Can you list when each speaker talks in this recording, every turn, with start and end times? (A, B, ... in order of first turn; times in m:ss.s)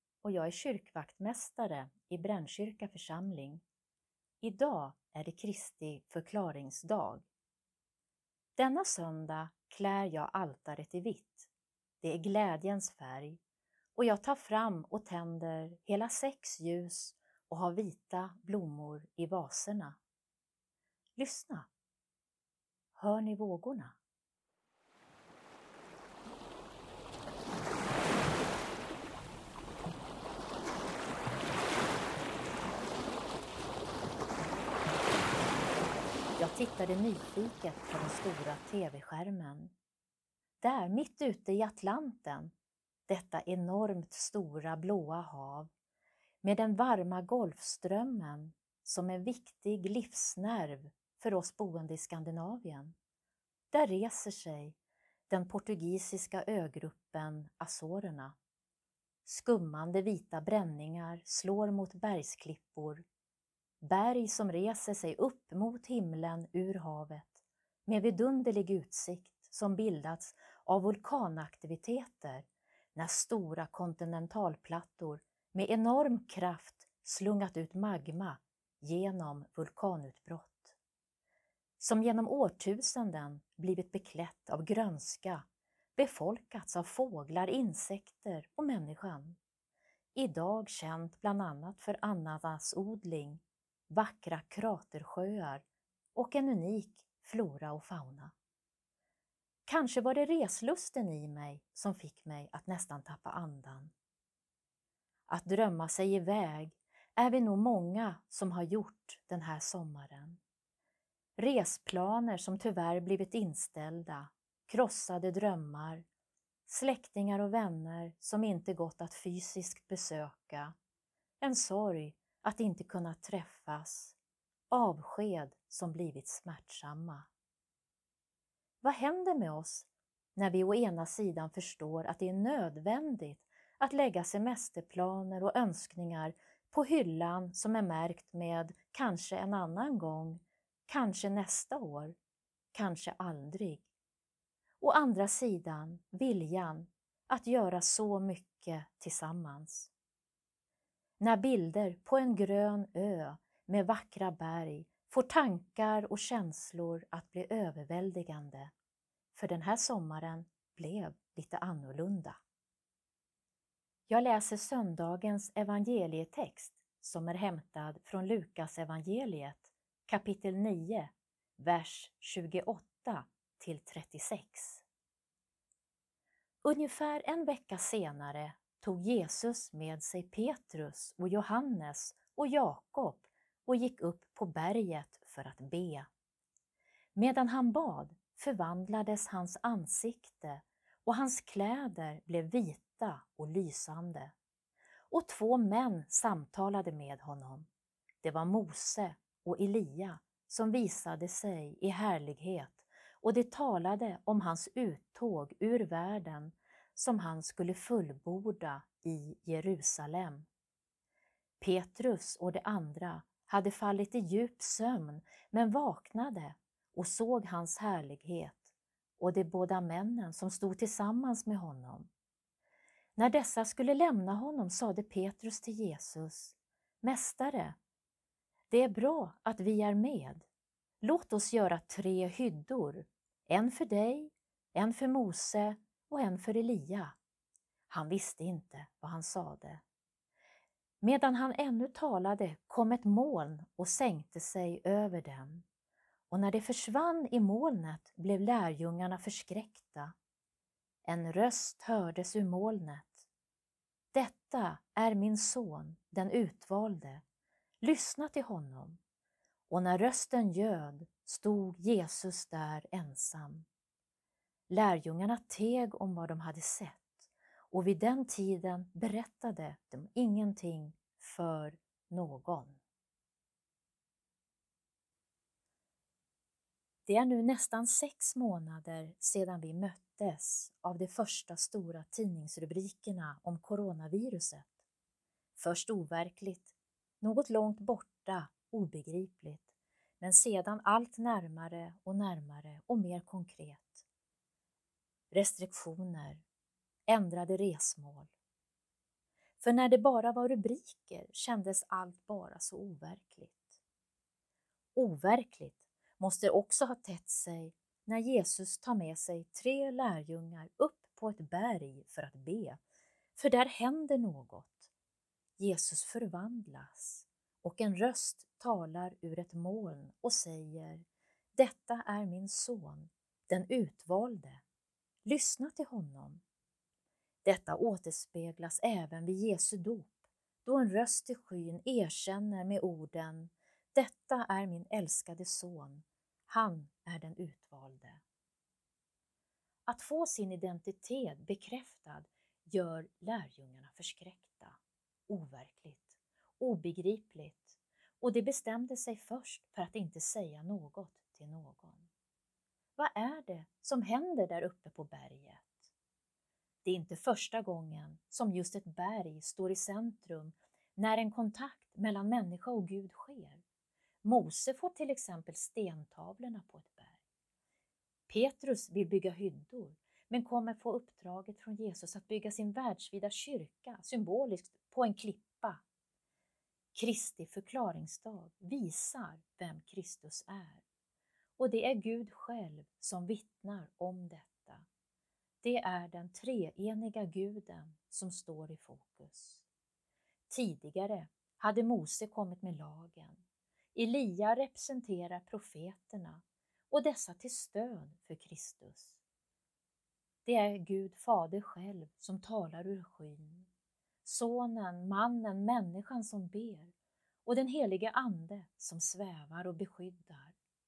0:00.2-0:03.6 A
0:04.4-0:07.3 A
0:08.6-0:11.5 A
0:12.0-0:13.4 A
0:14.0-0:20.0 A
0:21.2-0:21.7 A
0:23.0-0:24.0 A
0:36.4-0:39.7 A
0:40.6-0:42.5 A
0:43.1-0:45.7 A
0:46.4-0:53.0 A
0:53.7-0:54.8 A
0:55.3-0:58.4 A
0:59.2-1:03.1 A
1:03.8-1:20.8 A
1:21.8-1:29.4 A
1:30.2-1:38.3 A
1:39.7-1:43.9 A
1:45.3-1:50.4 A
1:51.4-1:56.0 A
1:56.7-2:00.8 A
2:01.4-2:04.2 A
2:04.7-2:07.3 A
2:08.8-2:22.2 A
2:22.7-2:23.9 A
2:24.8-2:29.9 A
2:31.2-2:38.7 A
2:39.3-2:42.4 A
2:44.1-2:54.8 A
2:56.6-3:06.1 A
3:07.2-3:14.3 A
3:15.1-3:17.7 A
3:18.2-3:30.5 A
3:31.6-3:42.1 A
3:43.2-3:47.8 A
3:48.7-3:50.5 A
3:51.0-3:57.2 A
3:57.9-3:59.8 A
4:01.0-4:05.6 A
4:06.3-4:10.2 A
4:11.1-4:13.3 A
4:14.1-4:17.2 A
4:17.8-4:19.0 A
4:19.7-4:23.7 A
4:24.7-4:32.8 A
4:37.1-4:44.7 A
4:45.6-4:54.1 A
4:55.3-4:56.4 A
4:57.1-4:58.3 A
4:59.6-5:03.8 A
5:05.0-5:12.8 A
5:13.4-5:14.9 A
5:15.6-5:24.6 A
5:25.2-5:26.4 A
5:27.4-5:38.2 A
5:39.9-5:52.1 A
5:53.0-5:55.9 A
5:56.8-6:03.6 A
6:04.2-6:07.2 A
6:08.3-6:15.8 A
6:16.9-6:20.8 A
6:21.6-6:24.9 A
6:25.6-6:29.7 A
6:30.5-6:33.4 A
6:34.0-6:39.2 A
6:40.4-6:43.7 A
6:44.2-6:46.9 A
6:47.4-6:50.6 A